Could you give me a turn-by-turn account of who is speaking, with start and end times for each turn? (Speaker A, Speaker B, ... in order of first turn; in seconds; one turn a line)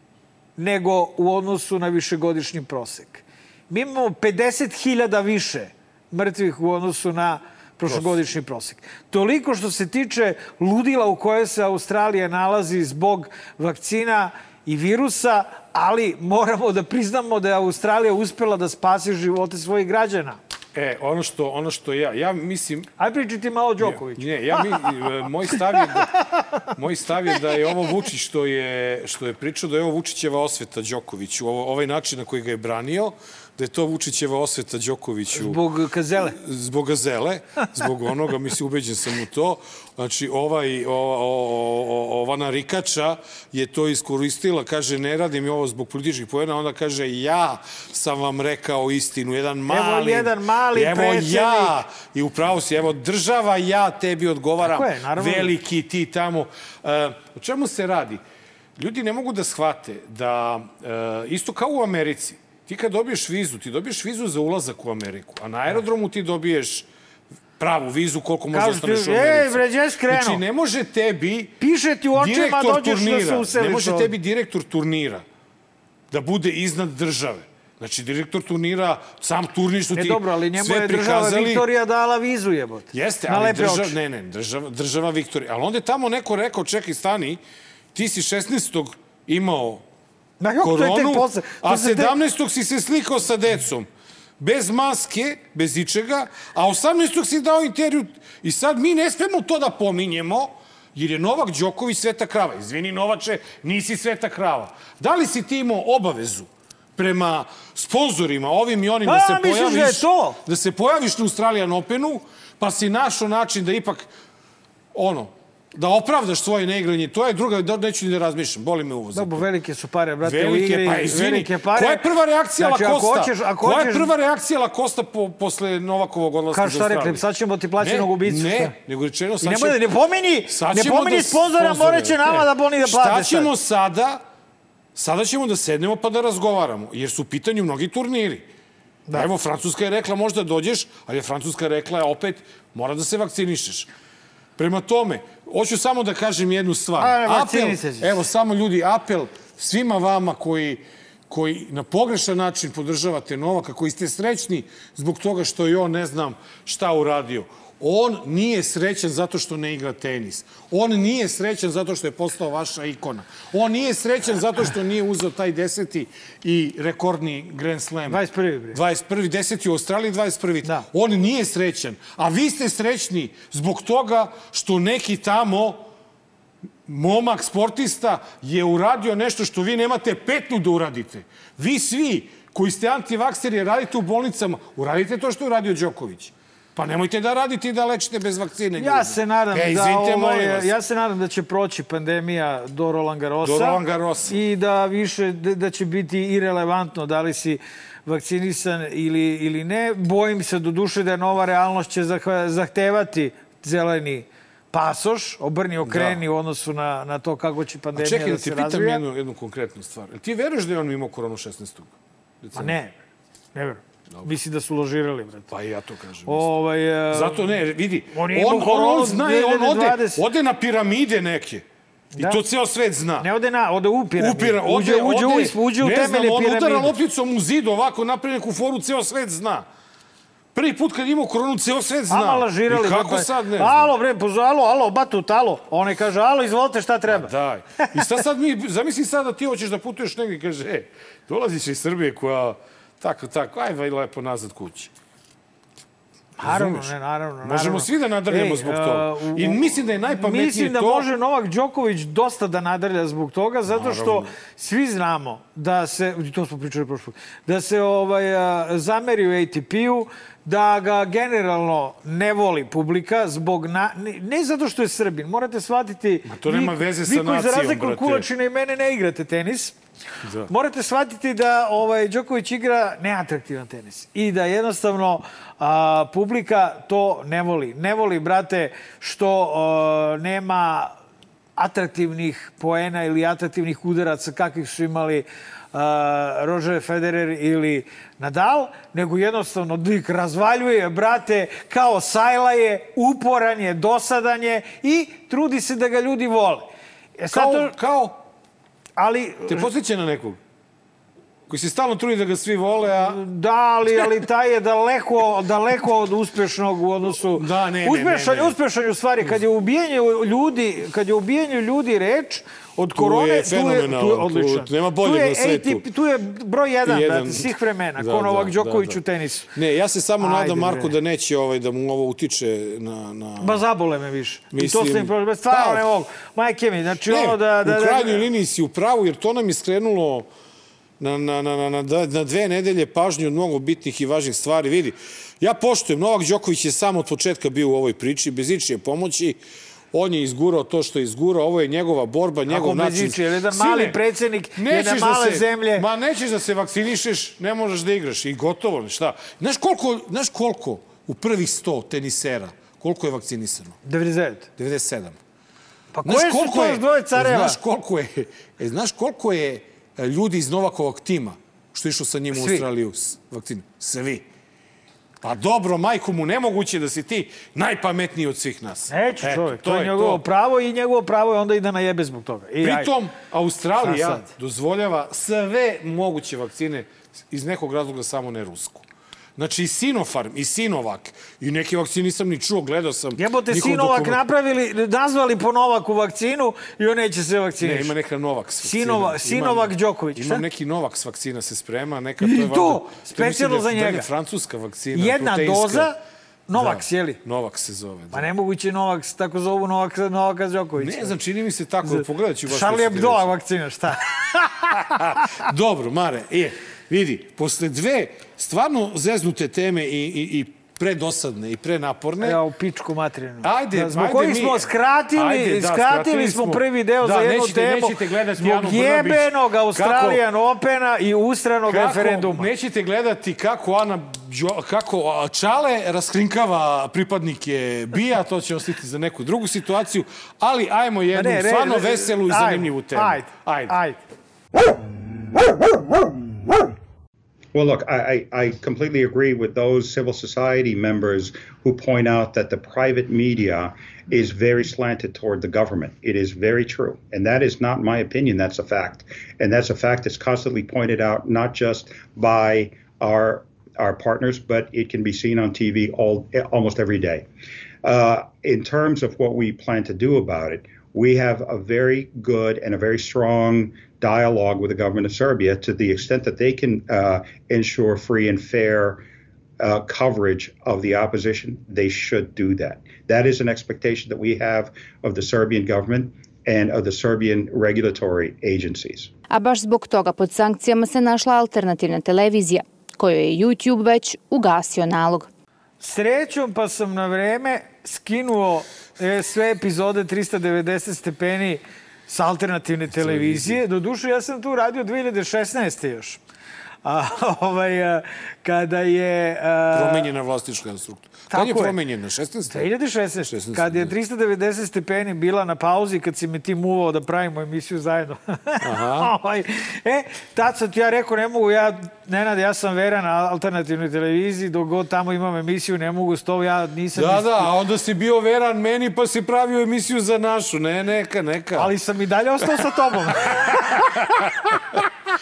Speaker A: 0.6-20.4
Speaker B: 20.8-22.9
Speaker A: 23.0-24.8
Speaker B: 23.8-26.1
Speaker B: 26.7-35.6
Speaker A: 35.3-36.4
Speaker B: 36.2-58.2
Speaker A: 49.7-51.8
Speaker A: 54.6-55.5
Speaker B: 58.8-66.9
Speaker B: 67.6-71.5
Speaker A: 68.5-70.4
Speaker A: 71.6-74.1
Speaker B: 72.2-75.2
Speaker B: 76.1-81.7
Speaker A: 79.9-84.0
Speaker B: 82.9-87.4
Speaker B: 87.9-89.8
Speaker A: 90.4-92.2
Speaker B: 90.6-93.9
Speaker B: 94.4-114.1
Speaker A: 109.0-110.4
Speaker B: 114.9-119.5
Speaker A: 119.1-122.0
Speaker B: 120.2-127.2
Speaker A: 122.6-124.1
Speaker A: 126.5-128.8
Speaker B: 127.8-129.8
Speaker A: 129.4-133.5
Speaker B: 130.5-134.2
Speaker B: 134.9-138.5
Speaker B: 139.1-143.9
Speaker B: 144.6-168.2
Speaker A: 147.0-148.2
Speaker A: 168.1-168.8
Speaker B: 168.7-175.8
Speaker B: 176.9-190.7
Speaker A: 188.8-209.0
Speaker B: 193.4-194.4
Speaker B: 205.8-206.2
Speaker B: 207.9-212.8
Speaker A: 212.6-213.0
Speaker A: 213.6-215.5
Speaker B: 215.5-216.5
Speaker A: 216.3-217.6
Speaker B: 217.1-221.7
Speaker A: 218.1-220.2
Speaker A: 222.2-222.4
Speaker B: 222.2-223.3
Speaker A: 223.2-226.9
Speaker B: 224.2-229.7
Speaker B: 230.5-233.9
Speaker A: 232.1-237.3
Speaker B: 237.1-244.9
Speaker A: 246.4-269.8
Speaker B: 246.4-251.1
Speaker B: 253.7-254.3
Speaker B: 266.3-268.3
Speaker B: 270.2-270.5
Speaker A: 270.5-280.9
Speaker A: 281.6-297.7
Speaker B: 297.3-298.2
Speaker A: 299.0-299.7
Speaker B: 299.5-300.4
Speaker B: 301.5-303.2
Speaker A: 302.9-319.5
Speaker B: 307.4-308.6
Speaker B: 312.8-315.8
Speaker B: 316.8-319.0
Speaker B: 319.5-323.6
Speaker A: 320.2-320.9
Speaker A: 323.4-328.3
Speaker B: 324.5-325.9
Speaker B: 327.1-330.3
Speaker B: 331.0-339.4
Speaker B: 339.9-344.0
Speaker A: 342.5-345.9
Speaker B: 344.6-353.8
Speaker A: 353.8-354.5
Speaker B: 354.6-355.2
Speaker A: 355.9-357.6
Speaker B: 356.0-364.3
Speaker A: 362.3-362.7
Speaker B: 365.2-370.2
Speaker A: 368.9-372.9
Speaker B: 372.6-378.8
Speaker A: 373.8-374.3
Speaker B: 379.4-384.2
Speaker A: 383.2-387.9
Speaker B: 387.6-395.9
Speaker A: 388.6-390.4
Speaker A: 392.2-394.1
Speaker A: 394.9-396.0
Speaker A: 396.5-397.2
Speaker B: 396.5-398.3
Speaker A: 398.1-401.1
Speaker B: 400.8-403.3
Speaker A: 401.8-405.4
Speaker B: 404.8-412.4
Speaker A: 412.2-422.5
Speaker B: 413.4-420.2
Speaker B: 421.7-433.8
Speaker A: 431.1-434.0
Speaker C: 437.5-457.3
Speaker C: 457.8-469.0
Speaker C: 469.6-479.1
Speaker D: 479.3-485.3
Speaker A: 485.8-496.2
Speaker B: 492.9-493.6
Speaker A: 496.9-500.1
Speaker B: 499.7-502.7
Speaker A: 501.3-501.8
Speaker A: 502.5-517.5
Speaker B: 503.2-503.9
Speaker B: 508.6-509.1
Speaker B: 517.0-521.7
Speaker A: 521.6-524.1
Speaker B: 523.2-524.6